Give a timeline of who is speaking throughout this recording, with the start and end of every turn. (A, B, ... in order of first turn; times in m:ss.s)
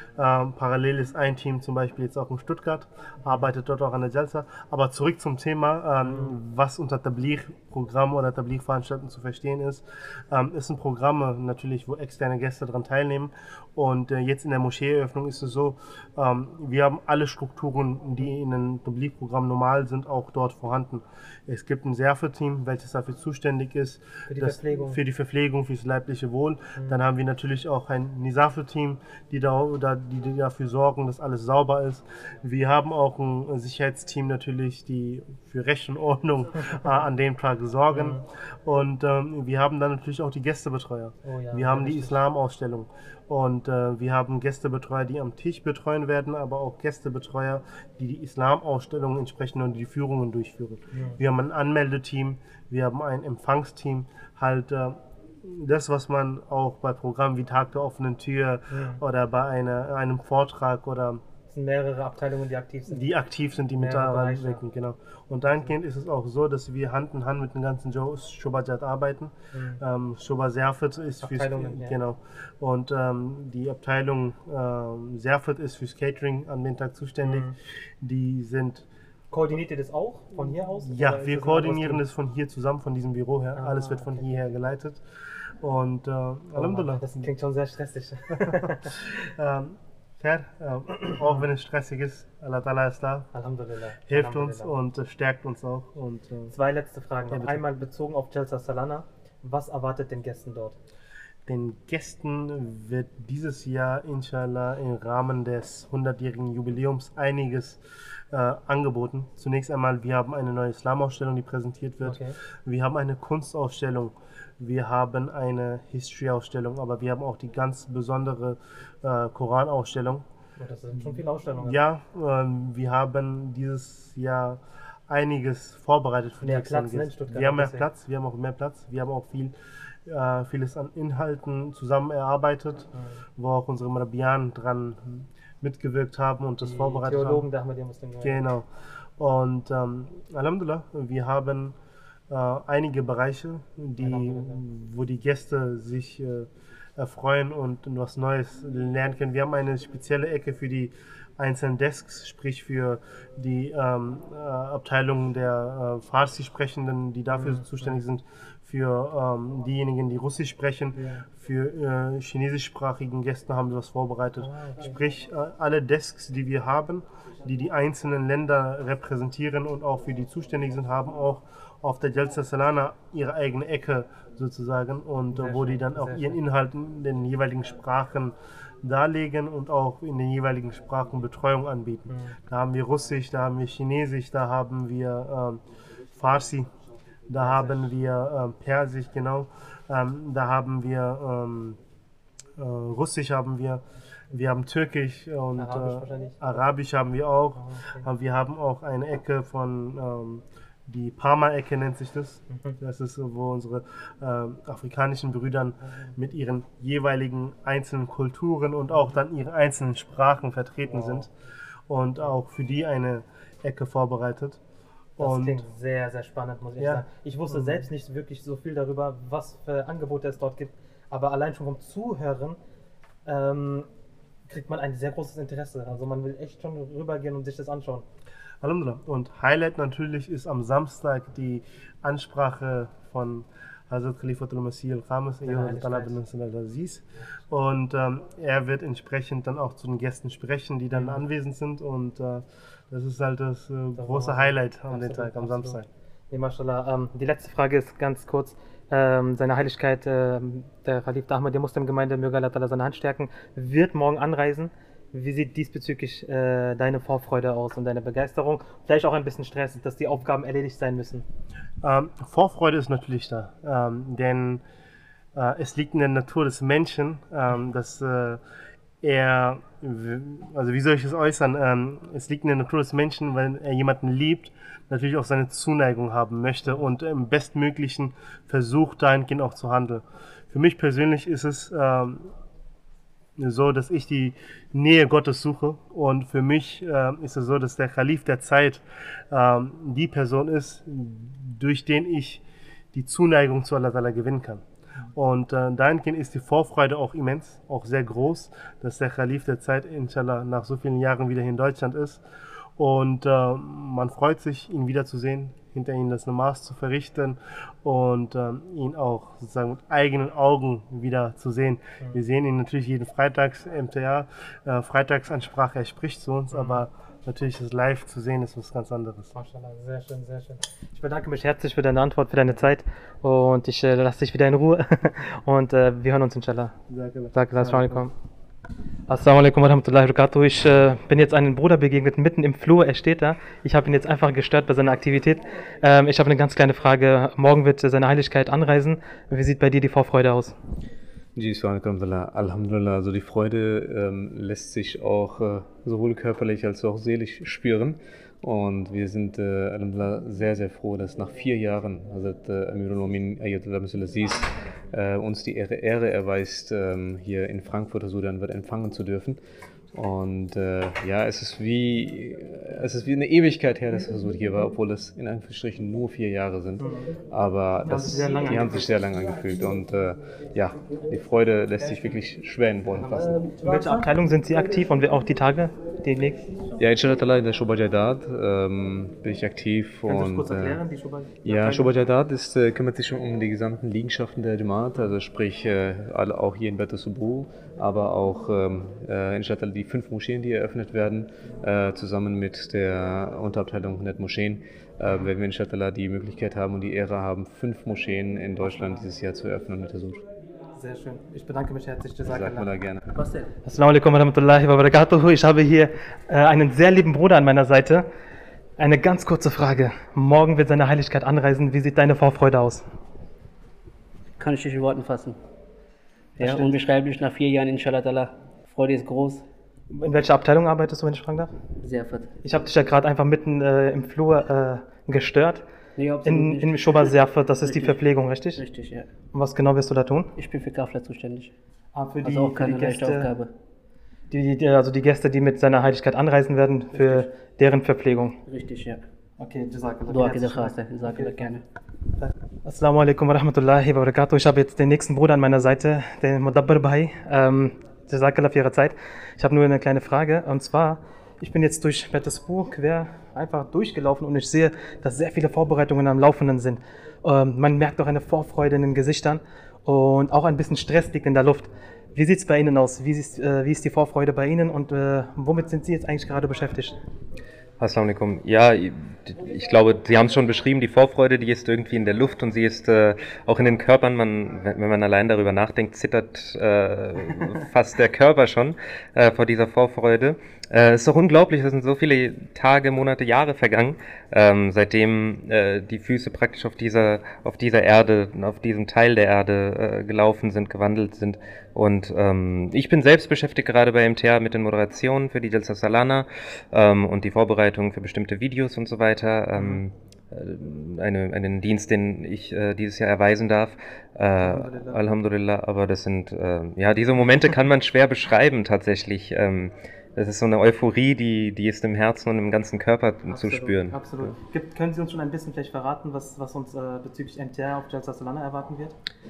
0:00.2-1:01.2 A
0:06.0-0:06.3 B
0:24.3-0:25.0 B
0:37.9-0:38.2 B
0:41.2-0:42.1 B
0:50.9-0:51.2 B
0:58.7-0:59.0 B
1:01.5-1:03.0 B
1:02.9-1:18.8 A
1:03.8-1:04.6 B
1:09.5-1:09.8 B
1:11.2-1:12.0 B
1:17.2-1:17.5 B
1:19.3-1:22.0 B
1:20.8-1:25.0 A
1:23.6-1:24.4 B
1:25.6-1:27.3 A
1:26.6-1:28.9 B
1:28.4-1:33.3 A
1:33.3-1:34.7 B
1:34.1-1:36.5 A
1:36.5-1:40.8 B
1:37.3-1:37.6 A
1:41.5-1:47.8 A
1:48.3-2:00.2 A
1:52.0-1:52.3 B
2:00.6-2:01.8 B
2:01.0-2:09.5 A
2:06.4-2:07.8 B
2:10.1-2:17.5 A
2:16.6-2:18.5 B
2:18.2-2:21.8 A
2:22.3-3:05.6 A
2:24.0-2:24.6 B
2:37.4-2:38.0 B
2:41.0-2:41.2 B
2:44.4-2:45.0 B
2:55.3-2:56.4 B
3:02.1-3:02.3 B
3:06.1-3:06.7 A
3:07.3-3:11.8 A
3:07.4-3:07.8 B
3:12.6-3:31.3 A
3:15.6-3:16.6 B
3:17.6-3:18.0 B
3:30.9-3:31.3 B
3:31.9-3:34.6 A
3:35.2-3:35.6 A
3:35.2-3:42.6 B
3:36.8-3:37.8 A
3:43.2-3:43.9 B
3:44.5-3:48.0 B
3:48.6-4:05.8 A
3:55.4-3:56.1 B
4:00.9-4:01.2 B
4:04.0-4:05.8 B
4:06.3-4:21.2 B
4:21.8-4:24.6 A
4:25.3-4:28.4 A
4:29.0-4:42.3 A
4:43.4-4:52.4 A
4:52.9-4:54.6 A
4:55.1-5:02.2 A
5:02.8-5:19.3 A
5:16.5-5:16.8 B
5:19.3-5:26.7 B
5:26.9-5:28.0 A
5:27.3-5:28.1 B
5:29.1-5:40.6 B
5:41.4-5:59.4 C
5:59.9-6:13.5 C
6:07.8-6:08.9 B
6:11.8-6:12.2 B
6:12.9-6:16.4 B
6:16.8-6:20.8 C
6:20.1-6:21.9 B
6:21.4-6:40.2 C
6:38.6-6:39.0 B
6:40.8-6:42.7 B
6:42.2-6:43.2 C
6:43.2-6:43.5 D
6:43.6-6:48.0 B
6:48.8-6:52.8 B
6:54.4-6:55.4 D
6:56.4-6:59.4 D
6:56.4-6:56.7 B
6:59.9-7:01.5 B
7:01.8-7:02.3 D
7:02.4-7:05.6 B
7:06.0-7:09.1 D
7:06.2-7:08.6 B
7:09.3-7:10.3 B
7:10.4-7:11.5 D
7:11.9-7:13.3 B
7:12.2-7:13.5 D
7:14.3-7:18.4 B
7:16.9-7:17.3 D
7:18.5-7:19.0 D
7:19.4-7:21.4 B
7:20.1-7:21.6 D
7:22.2-7:47.0 B
7:47.8-8:34.0 E
8:24.4-8:25.0 B
8:33.3-8:38.9 B